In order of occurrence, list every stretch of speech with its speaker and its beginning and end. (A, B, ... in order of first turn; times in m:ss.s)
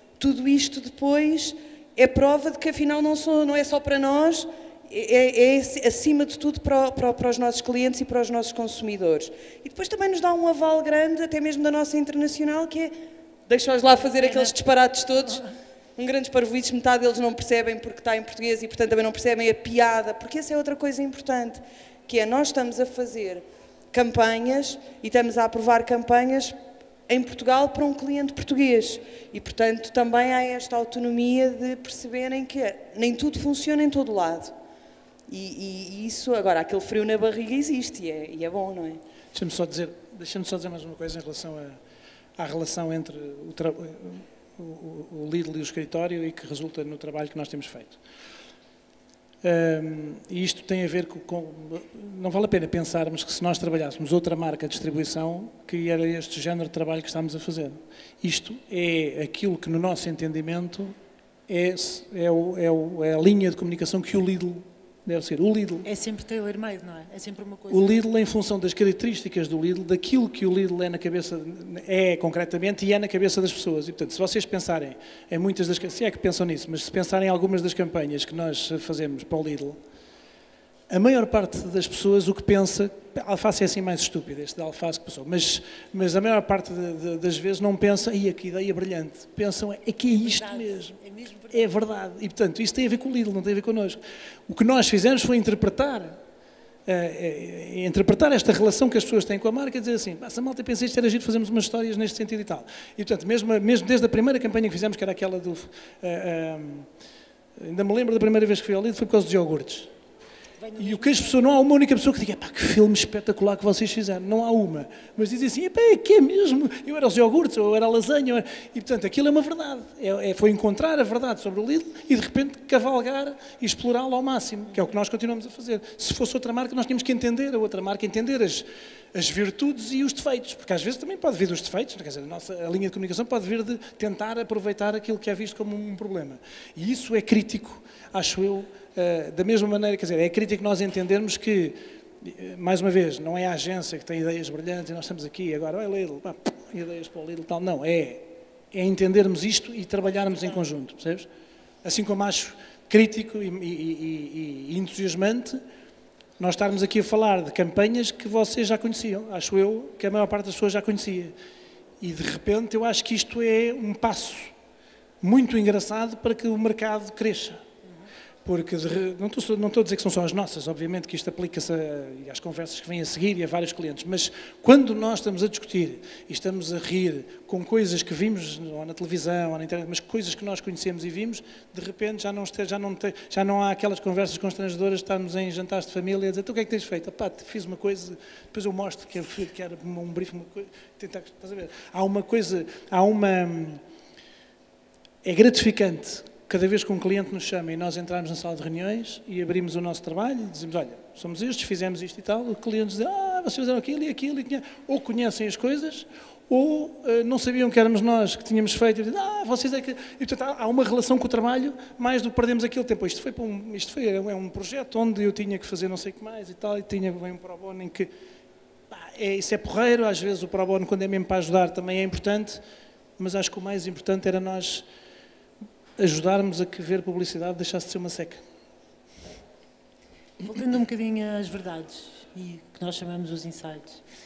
0:00.2-0:12.9 A
0:13.5-0:15.4 A
0:14.0-0:14.5 B
0:16.0-0:26.6 A
0:27.1-0:34.5 A
0:35.3-0:39.0 A
0:39.3-0:41.8 C
0:42.4-0:48.0 C
0:49.4-1:00.9 C
1:01.5-1:05.8 C
1:05.8-1:08.0 B
1:07.7-1:19.8 C
1:20.9-1:31.0 C
1:30.1-1:31.7 B
1:31.5-1:36.2 C
1:36.9-1:46.9 C
1:47.6-1:49.9 C
1:50.6-1:51.6 B
1:50.8-2:31.3 C
2:30.0-2:30.7 B
2:31.8-2:35.6 C
2:36.4-2:41.3 C
2:42.0-2:44.5 C
2:45.2-2:47.6 C
2:48.4-3:13.8 C
3:15.2-3:38.1 C
3:38.9-3:42.6 C
3:43.2-3:44.8 C
3:46.0-3:48.4 C
3:50.4-3:54.0 B